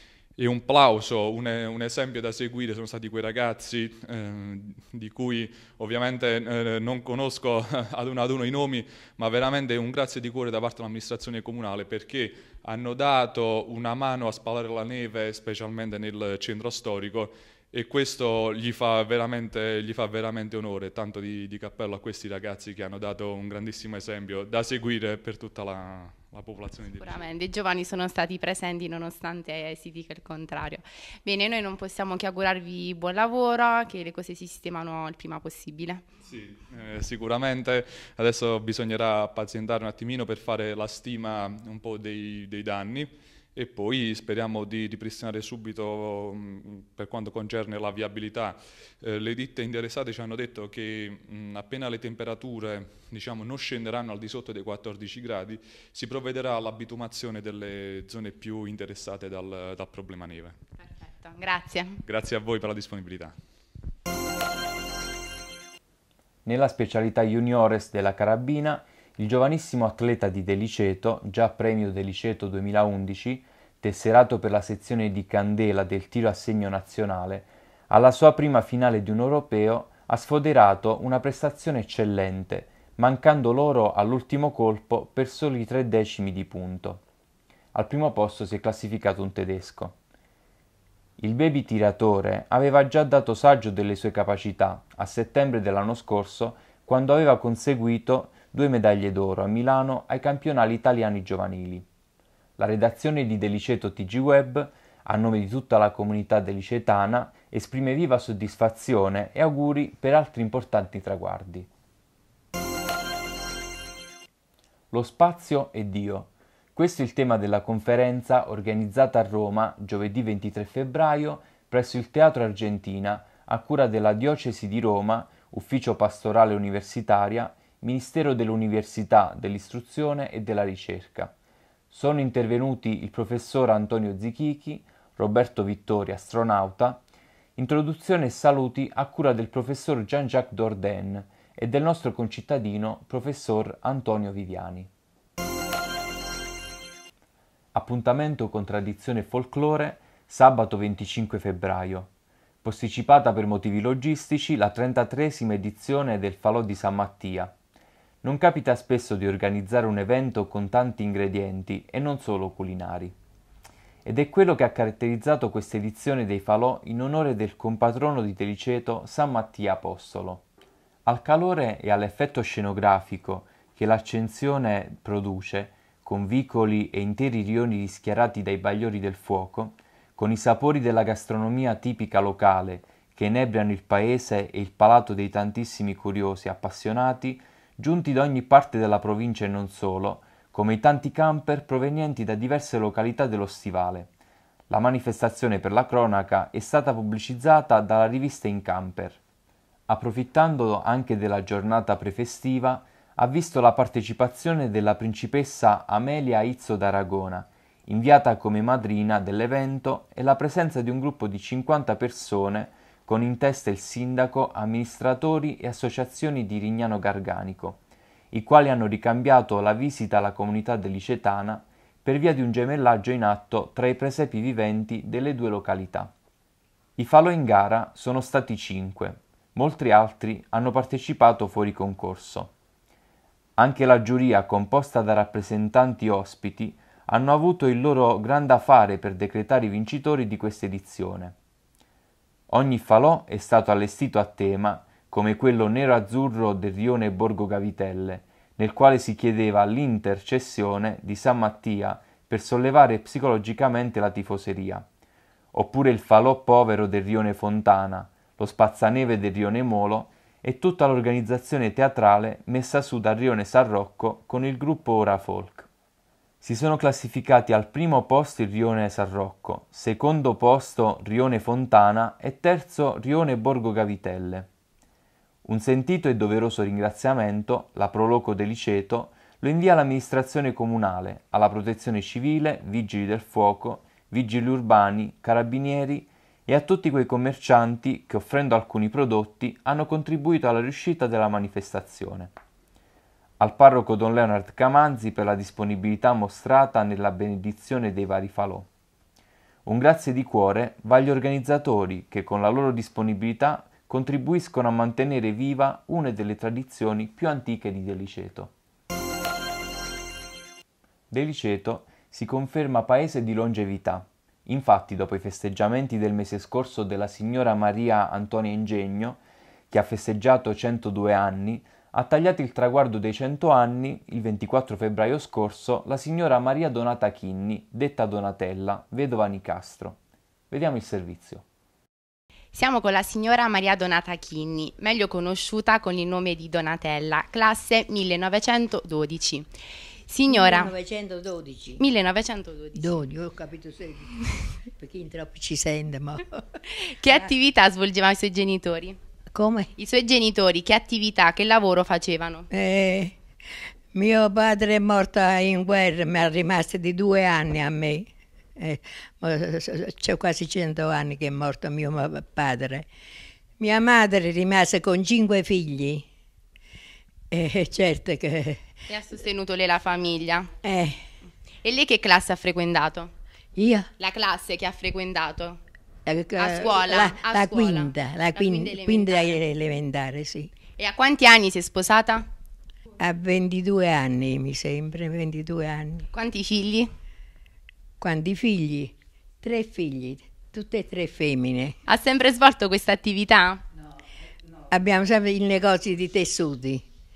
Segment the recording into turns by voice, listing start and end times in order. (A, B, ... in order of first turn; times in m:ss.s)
0:00.4-0:27.3 A
0:26.9-0:36.0 B
0:36.2-1:00.6 A
1:00.8-1:02.0 B
1:02.0-1:03.4 A
1:06.4-1:27.0 C
1:27.7-1:30.0 C
1:31.2-1:41.8 C
1:42.6-1:51.7 C
1:54.9-2:11.3 C
2:11.9-2:17.0 C
2:17.6-2:24.9 C
2:27.7-2:32.1 C
2:32.6-2:37.5 C
2:38.2-2:43.1 C
2:44.0-2:50.4 C
2:51.0-3:14.1 C
3:14.7-3:19.2 C
3:19.9-3:37.8 C
3:38.3-3:46.1 C
3:47.0-3:52.5 C
3:53.6-4:01.3 C
4:02.5-4:14.8 C
4:15.5-4:25.7 C
4:26.4-4:34.5 C
4:35.4-4:52.3 C
4:53.4-4:58.7 C
4:59.6-5:08.5 C
5:11.1-5:30.0 C
5:30.5-5:31.4 C
5:32.5-5:39.5 B
5:40.1-5:40.7 B
5:40.3-5:41.8 D
5:41.8-5:42.9 B
5:42.8-5:46.4 D
5:46.7-5:49.0 B
5:49.3-5:49.7 D
5:49.8-5:52.5 B
5:52.5-5:53.2 D
5:53.9-6:02.9 D
6:03.6-6:06.0 D
6:07.3-6:08.6 D
6:08.9-6:10.5 B
6:10.6-6:11.0 D
6:11.6-6:13.1 B
6:13.6-6:13.9 D
6:14.0-6:15.6 B
6:16.0-6:20.5 D
6:16.4-6:19.4 B
6:20.8-6:22.2 B
6:23.0-6:26.0 D
6:26.1-6:26.9 B
6:28.0-6:31.7 D
6:31.8-6:33.6 B
6:34.7-6:36.8 D